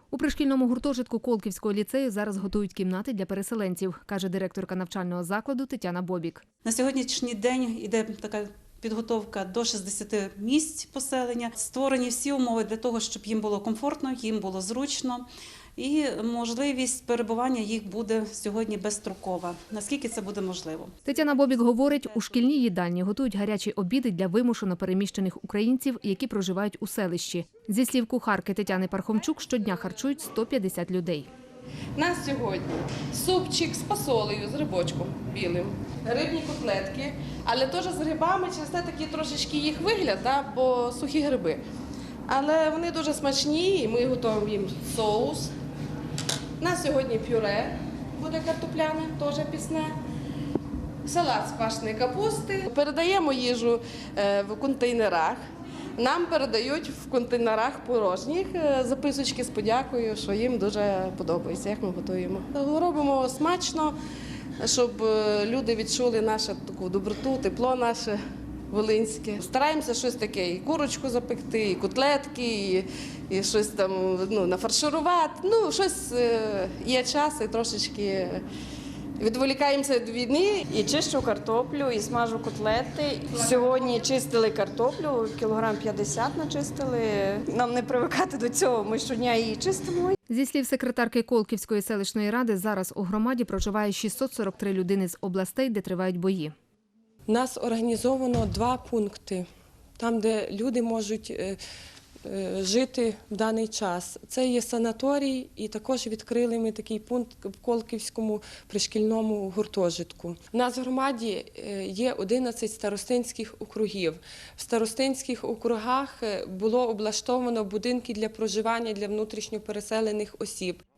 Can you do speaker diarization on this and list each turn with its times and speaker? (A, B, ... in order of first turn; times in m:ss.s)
0:00.1-0:06.4 A
0:06.6-0:20.9 B
0:21.0-0:31.3 A
0:32.0-0:41.6 C
0:42.3-0:45.5 C
0:46.6-0:49.9 C
0:51.1-0:55.4 C
0:56.0-1:03.9 C
1:04.6-1:08.2 C
1:08.7-1:18.4 C
1:19.2-1:20.7 C
1:20.7-1:30.2 D
1:30.3-1:36.5 A
1:37.3-1:39.5 E
1:40.0-1:41.6 E
1:42.2-2:00.8 E